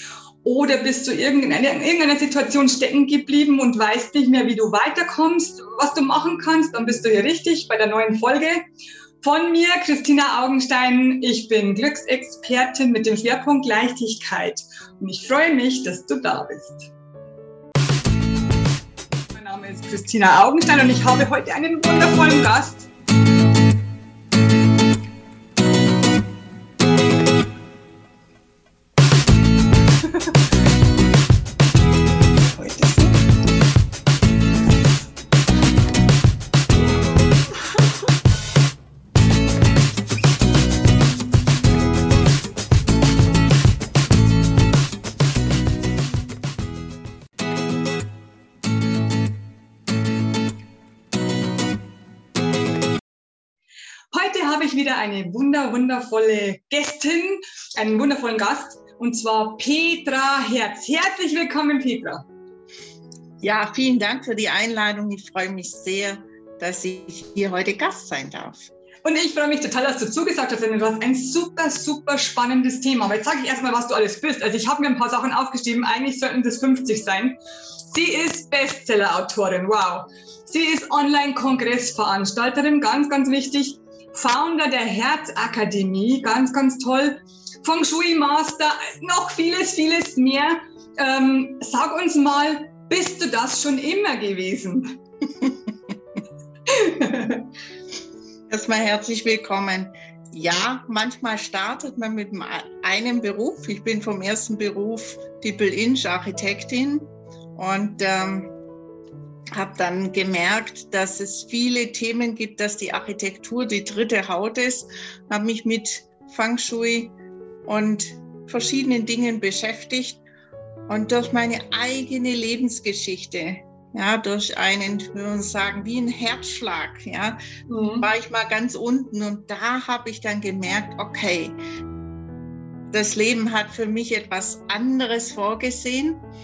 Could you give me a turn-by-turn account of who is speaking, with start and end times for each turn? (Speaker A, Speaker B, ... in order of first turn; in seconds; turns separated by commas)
Speaker A: 0.4-8.6, Speaker A: 9.2-16.9, Speaker A: 19.3-22.9, Speaker B: 32.8-33.1, Speaker A: 54.1-62.2, Speaker B: 63.4-68.7, Speaker A: 69.0-77.4, Speaker A: 77.9-95.0, Speaker A: 96.7-97.5, Speaker B: 98.5-108.5, Speaker B: 109.5-117.1, Speaker B: 117.7-120.2, Speaker B: 120.9-127.4, Speaker A: 127.7-128.1, Speaker B: 128.0-131.6, Speaker B: 132.9-136.2